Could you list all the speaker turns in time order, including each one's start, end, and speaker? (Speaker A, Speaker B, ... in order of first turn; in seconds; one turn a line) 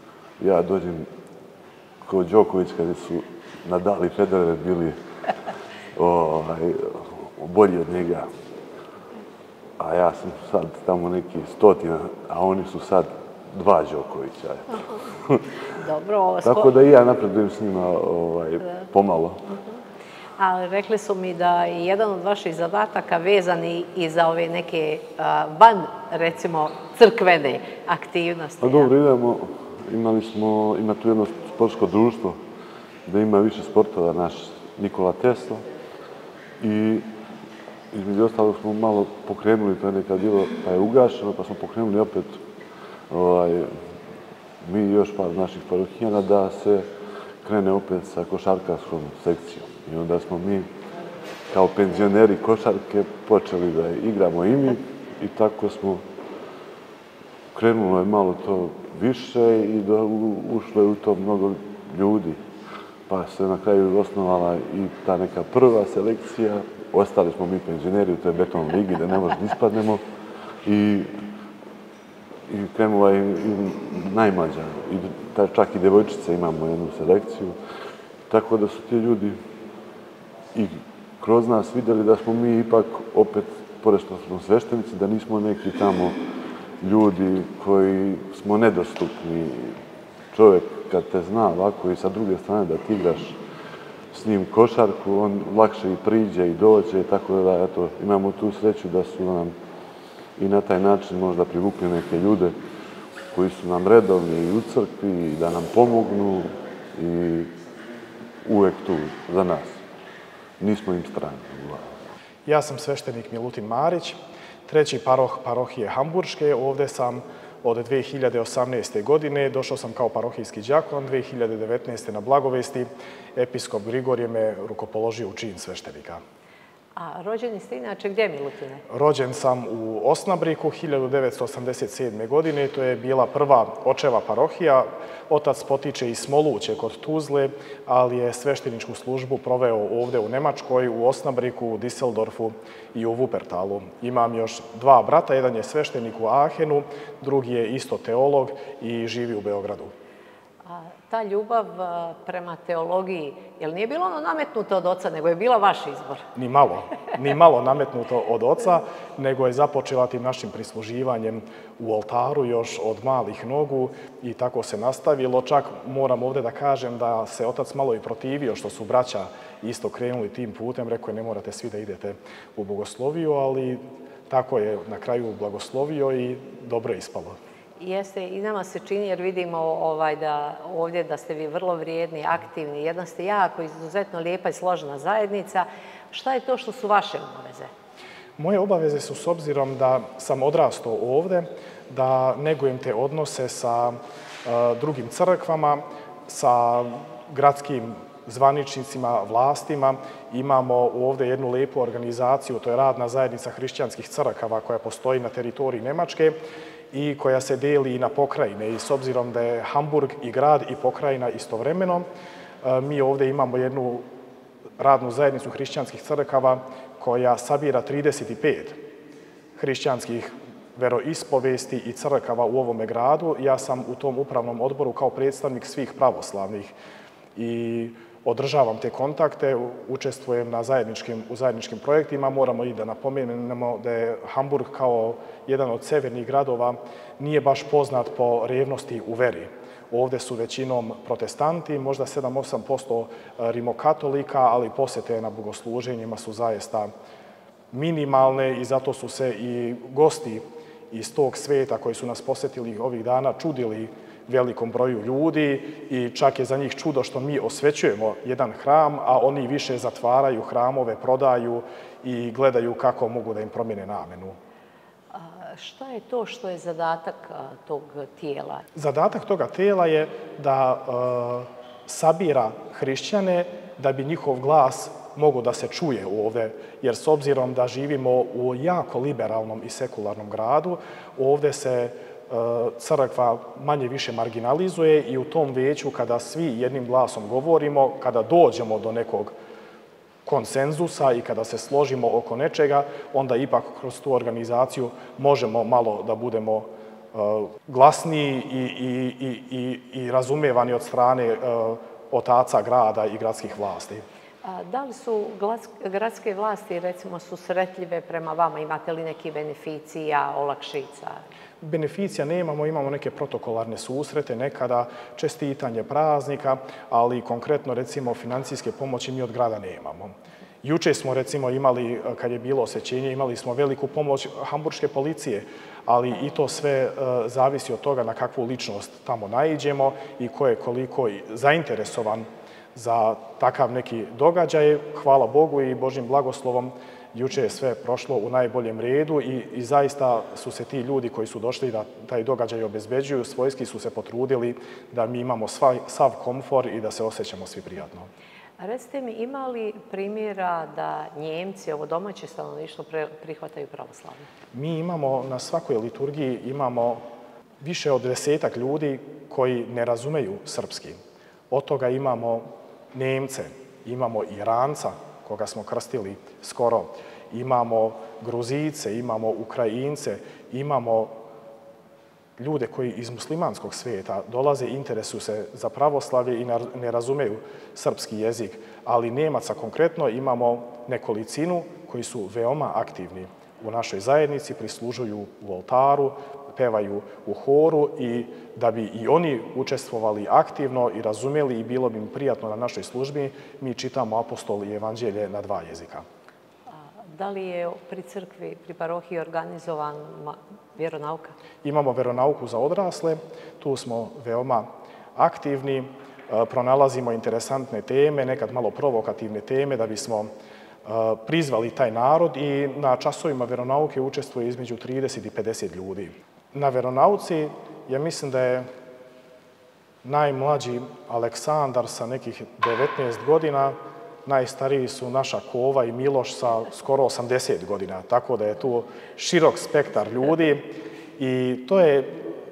Speaker A: 0.4-1.1
Speaker A: 2.0-5.0
Speaker A: 6.0-8.3
Speaker A: 9.8-15.5
Speaker B: 15.7-16.7
Speaker A: 16.4-19.4
Speaker B: 20.4-28.9
Speaker A: 28.6-32.4
Speaker A: 33.0-35.6
Speaker A: 36.6-37.1
Speaker A: 37.9-42.4
Speaker A: 43.1-43.8
Speaker A: 44.6-46.9
Speaker A: 47.4-50.7
Speaker A: 51.5-56.0
Speaker A: 57.5-62.4
Speaker A: 63.1-70.0
Speaker A: 70.6-71.2
Speaker A: 72.5-77.5
Speaker A: 78.3-79.4
Speaker A: 80.5-86.2
Speaker A: 86.8-89.8
Speaker A: 90.3-93.4
Speaker A: 94.1-99.5
Speaker A: 100.4-102.5
Speaker A: 103.3-107.5
Speaker A: 108.4-109.8
Speaker A: 110.6-111.9
Speaker C: 112.5-126.2
Speaker B: 127.0-128.8
Speaker C: 128.9-149.9
Speaker B: 150.6-156.2
Speaker C: 156.3-177.4
Speaker B: 177.8-187.7
Speaker C: 188.4-206.4
Speaker C: 206.9-212.1
Speaker C: 212.6-214.0
Speaker C: 214.8-218.8
Speaker C: 219.6-226.7
Speaker C: 227.3-246.9
Speaker C: 247.7-264.4
Speaker B: 265.1-268.6
Speaker C: 268.8-289.3
Speaker C: 290.2-304.0
Speaker B: 304.4-311.2
Speaker C: 311.6-348.1
Speaker B: 348.6-354.3
Speaker C: 354.5-357.0
Speaker C: 357.6-361.0
Speaker C: 361.5-371.1
Speaker C: 372.4-396.1
Speaker B: 396.7-401.3
Speaker C: 401.6-410.3
Speaker C: 410.9-418.7
Speaker C: 420.0-432.2